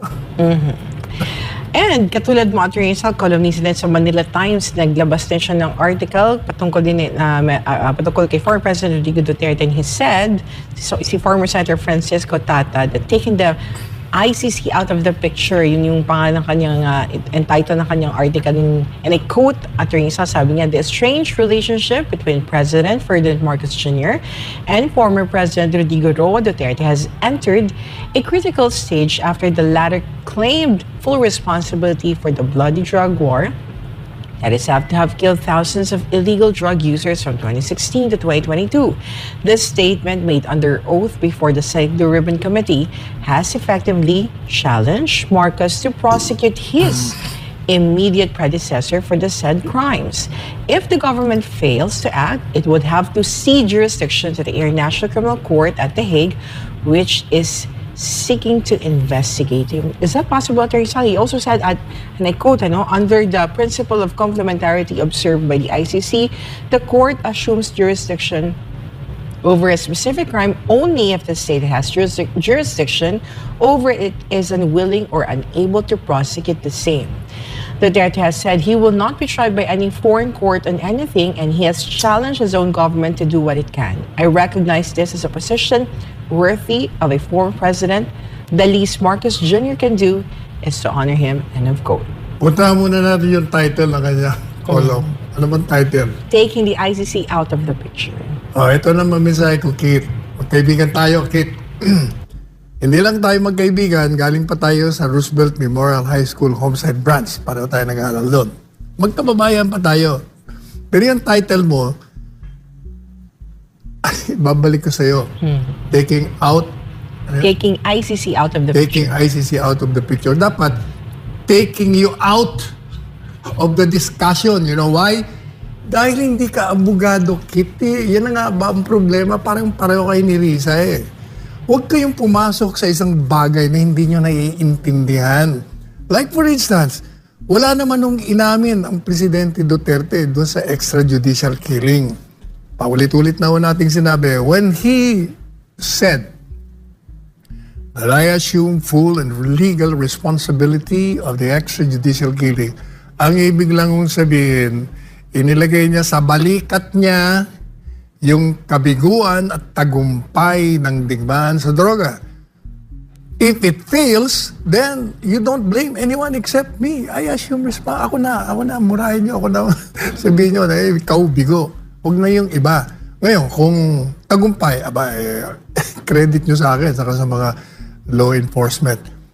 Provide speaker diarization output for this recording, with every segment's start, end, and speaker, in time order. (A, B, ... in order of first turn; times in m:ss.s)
0:00.4-0:00.9 A
0:01.7-0:13.6 A
0:14.1-0:33.5 A
0:34.4-1:08.6 A
1:09.4-1:17.2 A
1:17.8-1:32.1 A
1:32.4-1:36.2 B
1:34.7-1:35.0 A
1:36.3-1:38.4 A
1:38.5-1:42.1 B
1:42.8-1:50.2 B
1:50.9-1:51.9 B
1:54.0-1:55.3 B
1:55.4-1:55.7 A
1:55.9-1:56.7 B
1:57.4-1:59.1 A
1:58.7-2:00.8 B
2:01.5-2:02.7 B
2:03.6-2:05.2 B
2:05.9-2:11.0 B
2:11.7-2:15.6 B
2:16.1-2:22.1 B
2:22.8-2:26.3 B
2:27.9-2:37.4 B
2:38.2-2:42.2 B
2:43.4-2:57.5 B
2:58.1-2:59.0 B